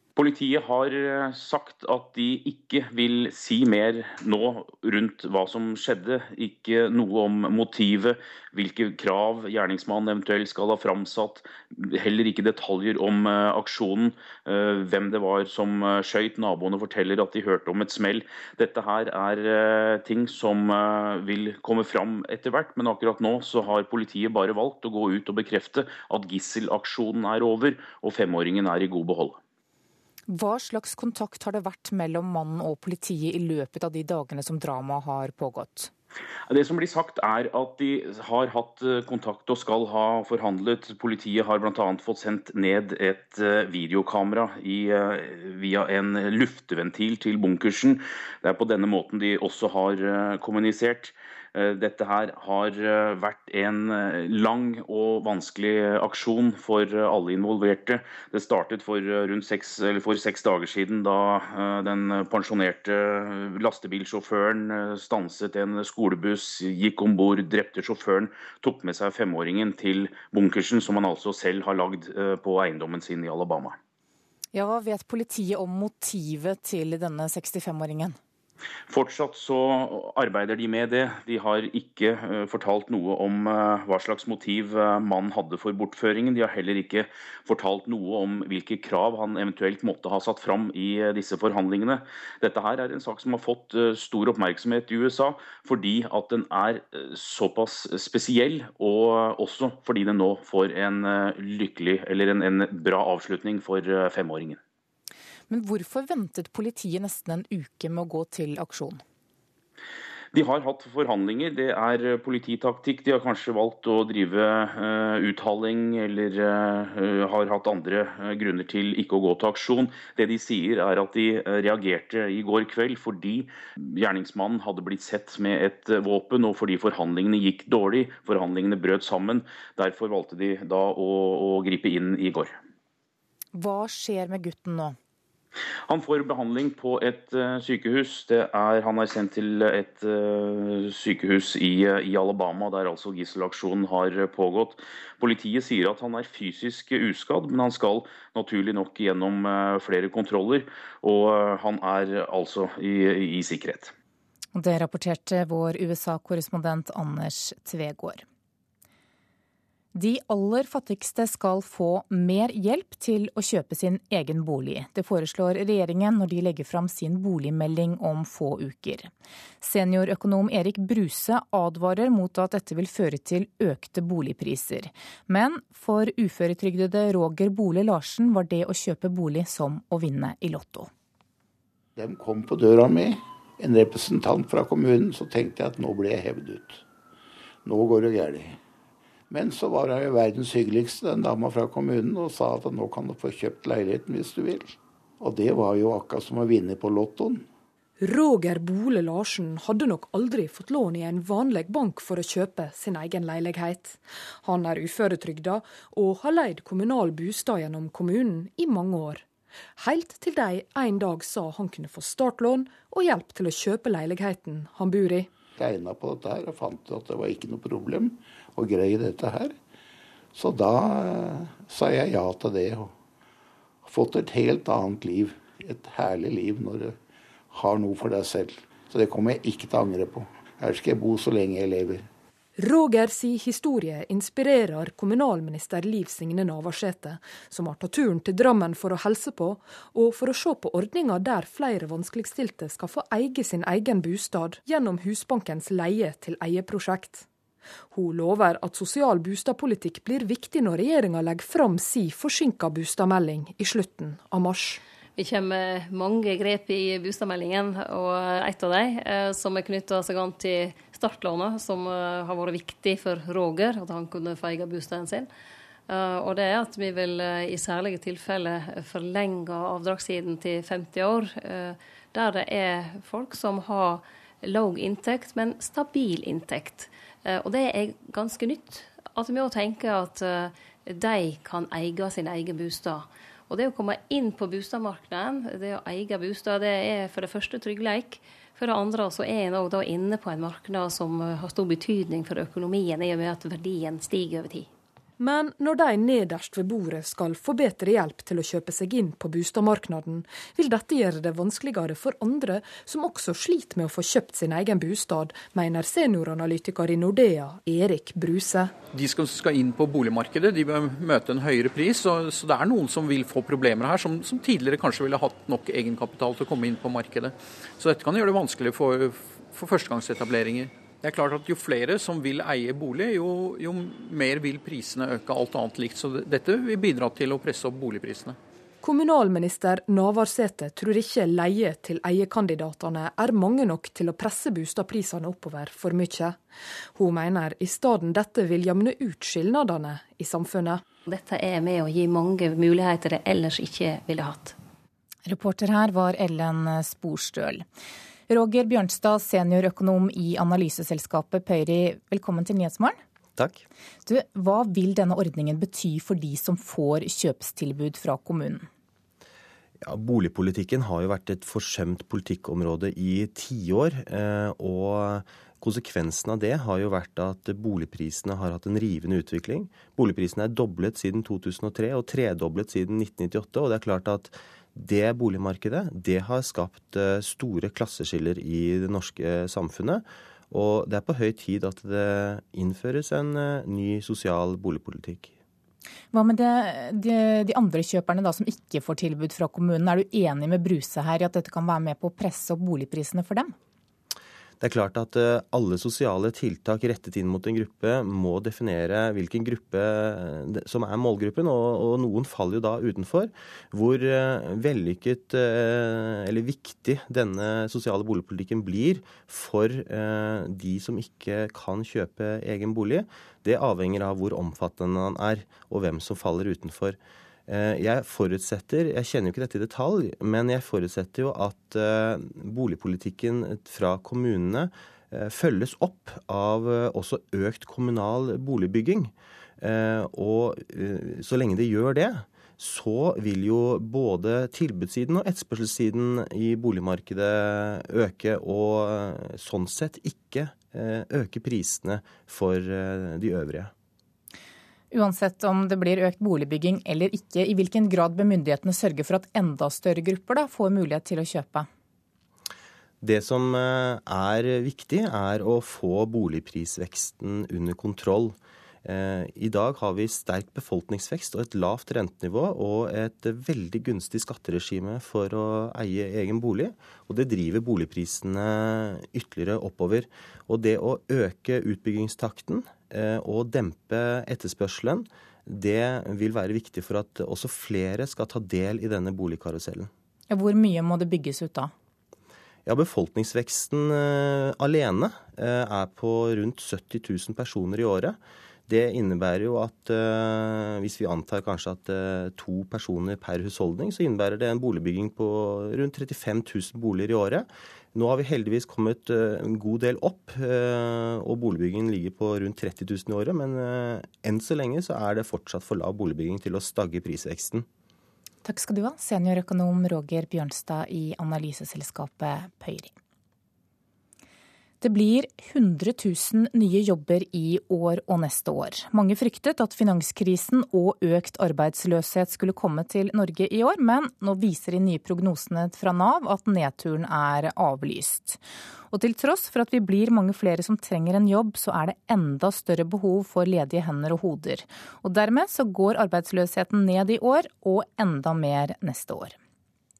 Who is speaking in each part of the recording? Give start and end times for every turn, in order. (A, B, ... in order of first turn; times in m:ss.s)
0:00.2-0:29.4 A
0:30.3-0:35.9 B
0:36.5-1:13.8 A
1:14.5-1:18.2 B
1:18.9-1:44.6 A
1:45.5-1:49.0 B
1:50.3-2:12.6 A
2:13.5-2:15.0 B
2:15.9-2:33.9 A
2:34.6-2:38.2 B
2:40.0-3:00.9 B
3:02.0-3:06.8 C
3:07.6-3:08.6 C
3:09.3-3:17.4 C
3:18.0-3:29.2 D
3:29.8-3:35.3 D
3:35.6-3:39.6 C
3:40.4-3:42.9 C
3:43.8-3:47.0 C
3:47.5-3:52.0 C
3:52.6-4:07.2 D
4:07.9-4:14.8 D
4:15.2-4:25.3 E
4:25.9-4:54.7 E
4:55.2-5:08.8 D
5:08.9-5:28.4 F
5:28.8-5:36.4 D
5:37.0-5:40.8 D
5:41.1-5:44.6 E
5:45.3-5:47.6 B
5:48.3-5:53.0 B
5:53.4-5:53.6 G
5:54.1-5:58.7 B
5:59.8-6:25.3 G
6:26.1-6:33.5 B
6:34.6-6:57.0 G
6:57.5-7:23.7 G
7:24.9-7:31.7 B
7:33.0-7:59.9 G
8:00.3-8:01.7 B
8:02.7-8:27.7 G
8:28.4-8:32.9 B
8:34.8-8:48.4 B
8:48.9-8:59.4 B